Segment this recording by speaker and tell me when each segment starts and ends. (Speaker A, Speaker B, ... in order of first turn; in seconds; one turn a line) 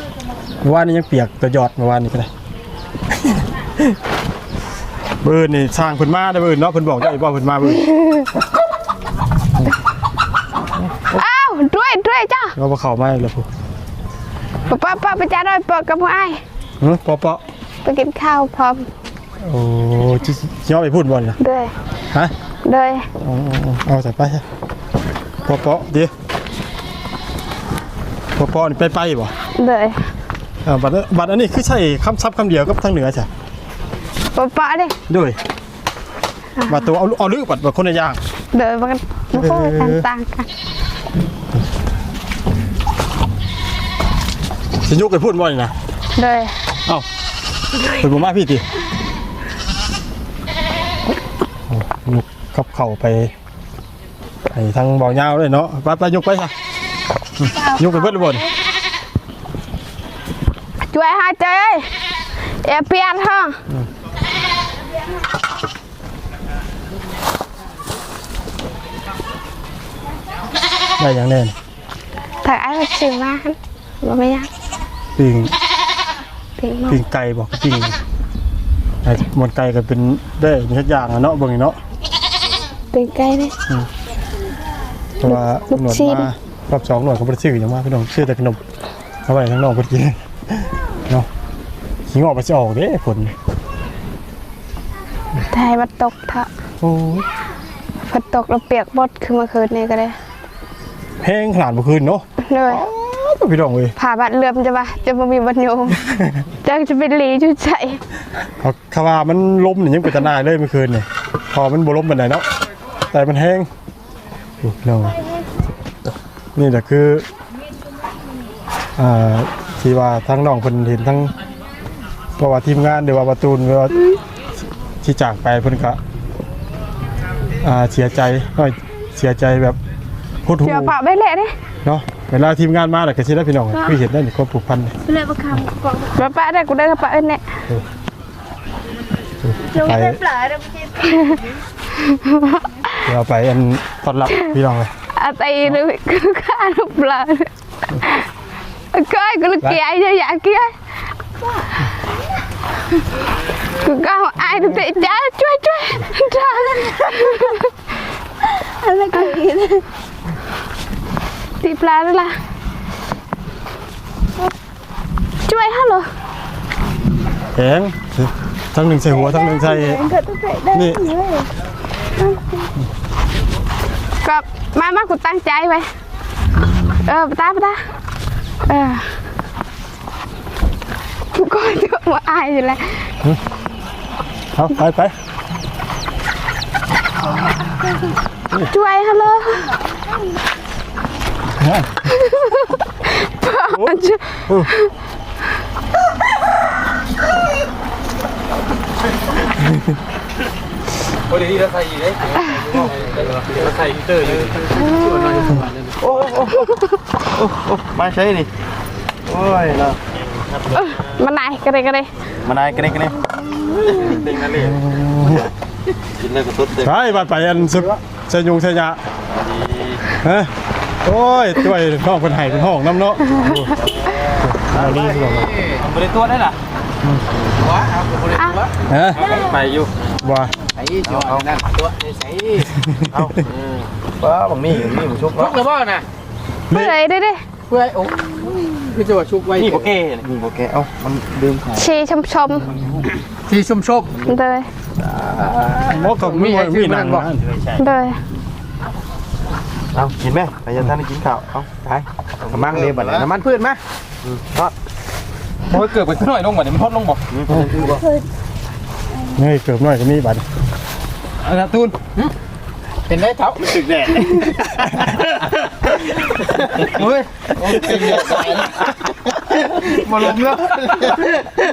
Speaker A: 0.6-2.3
Speaker A: 3.1-4.0
Speaker A: 5.2-7.8
Speaker B: 7.9-8.3
Speaker B: 11.1-12.6
Speaker A: 12.6-13.5
Speaker B: 14.7-16.4
Speaker A: 16.8-17.4
Speaker B: 17.9-18.9
Speaker A: 19.4-21.4
Speaker B: 21.4-21.7
Speaker B: 22.6-23.1
Speaker A: 23.2-24.4
Speaker A: 25.4-26.1
Speaker A: 28.4-29.3
Speaker B: 29.6-30.1
Speaker A: 30.6-33.3
Speaker B: 34.4-35.0
Speaker A: 35.1-35.4
Speaker B: 36.6-36.9
Speaker A: 36.7-38.2
Speaker B: 38.5-40.5
Speaker A: 39.3-40.1
Speaker A: 44.8-45.8
Speaker B: 46.2-46.6
Speaker A: 47.8-48.6
Speaker A: 51.7-53.3
Speaker A: 54.5-56.5
Speaker A: 57.4-58.5
Speaker B: 60.9-61.9
Speaker B: 62.5-63.6
Speaker A: 71.0-71.5
Speaker B: 72.4-74.5
Speaker A: 75.2-75.5
Speaker B: 76.6-77.0
Speaker A: 76.9-78.0
Speaker A: 79.0-81.8
Speaker B: 82.9-83.6
Speaker A: 85.2-88.6
Speaker B: 85.2-86.3
Speaker A: 89.3-91.3
Speaker A: 92.1-93.3
Speaker B: 95.5-96.5
Speaker A: 96.8-97.3
Speaker B: 98.1-100.2
Speaker A: 101.2-104.0
Speaker B: 102.4-102.8
Speaker B: 104.0-108.0
Speaker A: 106.0-106.4
Speaker A: 108.6-112.5
Speaker A: 113.1-113.7
Speaker A: 114.6-115.2
Speaker A: 116.5-117.2
Speaker A: 119.0-121.3
Speaker A: 122.4-124.0
Speaker A: 125.0-126.0
Speaker A: 127.6-129.8
Speaker A: 130.4-131.0
Speaker B: 130.6-131.6
Speaker A: 131.8-135.0
Speaker C: 135.1-136.2
Speaker B: 136.1-137.6
Speaker A: 139.4-140.2
Speaker C: 139.8-141.1
Speaker B: 141.0-141.4
Speaker B: 141.9-143.0
Speaker A: 143.1-144.9
Speaker B: 145.2-148.3
Speaker B: 148.9-150.7
Speaker B: 153.8-157.7
Speaker C: 158.4-159.8
Speaker B: 159.1-159.5
Speaker B: 161.6-162.4
Speaker B: 165.5-166.1
Speaker A: 167.6-170.1
Speaker C: 169.6-171.5
Speaker A: 170.7-171.1
Speaker C: 172.2-172.7
Speaker B: 174.2-175.9
Speaker A: 176.6-177.0
Speaker B: 177.0-177.8
Speaker B: 178.6-179.2
Speaker B: 181.3-183.1
Speaker A: 184.5-185.2
Speaker B: 188.7-189.8
Speaker A: 191.6-192.1
Speaker B: 192.1-194.9
Speaker A: 193.8-194.7
Speaker D: 201.3-206.3
Speaker E: 204.5-204.8
Speaker E: 206.0-208.5
Speaker E: 209.3-211.0
Speaker B: 210.7-212.1
Speaker E: 212.4-214.8
Speaker A: 214.6-215.5
Speaker E: 216.2-217.0
Speaker A: 216.8-219.0
Speaker E: 219.4-220.0
Speaker A: 220.2-220.5
Speaker A: 221.0-225.5
Speaker B: 223.3-223.6
Speaker E: 224.7-225.3
Speaker D: 224.8-226.6
Speaker D: 227.5-229.9
Speaker A: 228.9-229.2
Speaker A: 230.2-230.5
Speaker D: 230.8-232.8
Speaker E: 231.0-231.5
Speaker E: 233.0-235.6
Speaker D: 235.3-236.1
Speaker A: 236.7-236.9
Speaker B: 236.7-237.4
Speaker D: 237.7-239.9
Speaker E: 239.6-241.9
Speaker B: 241.8-242.7
Speaker E: 242.7-243.0
Speaker D: 243.5-244.1
Speaker B: 244.3-244.7
Speaker E: 245.0-245.8
Speaker D: 245.4-247.3
Speaker A: 245.9-247.4
Speaker E: 247.4-247.8
Speaker B: 247.8-248.2
Speaker E: 249.9-253.3
Speaker D: 251.9-253.8
Speaker E: 254.2-254.7
Speaker D: 255.7-257.2
Speaker E: 257.3-258.1
Speaker A: 259.3-260.5
Speaker D: 261.4-262.3
Speaker D: 263.1-264.4
Speaker E: 263.6-265.3
Speaker E: 266.2-271.5
Speaker D: 266.8-268.9